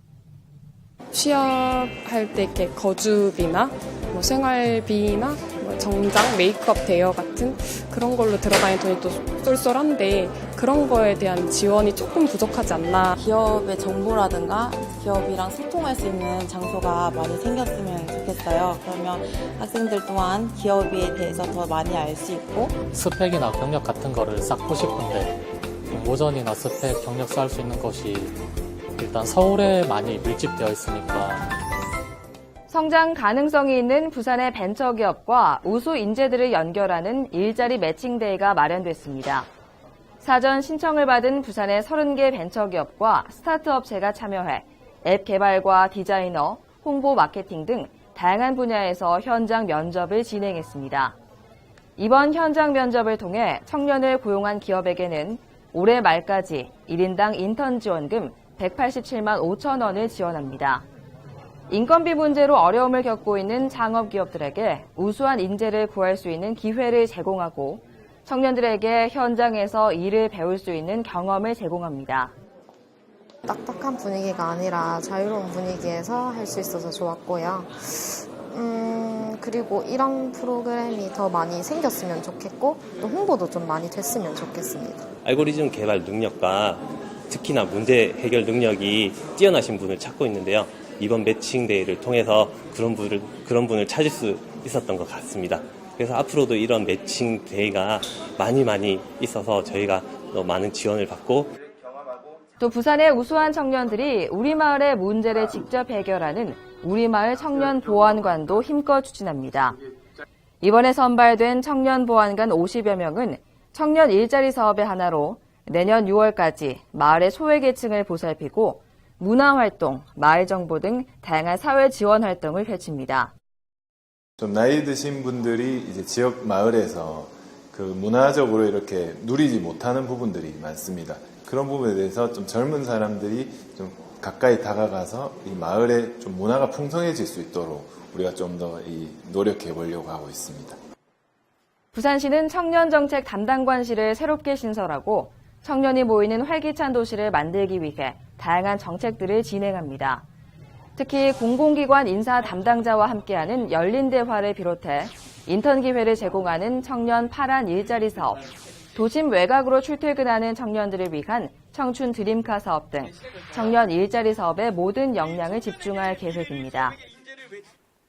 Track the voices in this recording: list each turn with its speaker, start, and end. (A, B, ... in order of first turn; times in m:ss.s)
0:01.1-0:13.2 A
0:13.1-0:22.6 B
0:22.9-0:25.3 C
0:26.2-0:28.3 C
0:29.0-0:31.4 C
0:32.7-0:39.5 D
0:40.2-0:51.2 D
0:52.0-1:00.8 D
1:01.7-1:12.4 D
1:13.4-1:25.1 E
1:25.2-1:41.5 F
1:42.6-1:49.8 D
1:50.6-2:03.3 D
2:04.4-2:20.8 G
2:21.9-2:30.2 D
2:31.0-2:38.4 D
2:39.0-2:47.0 D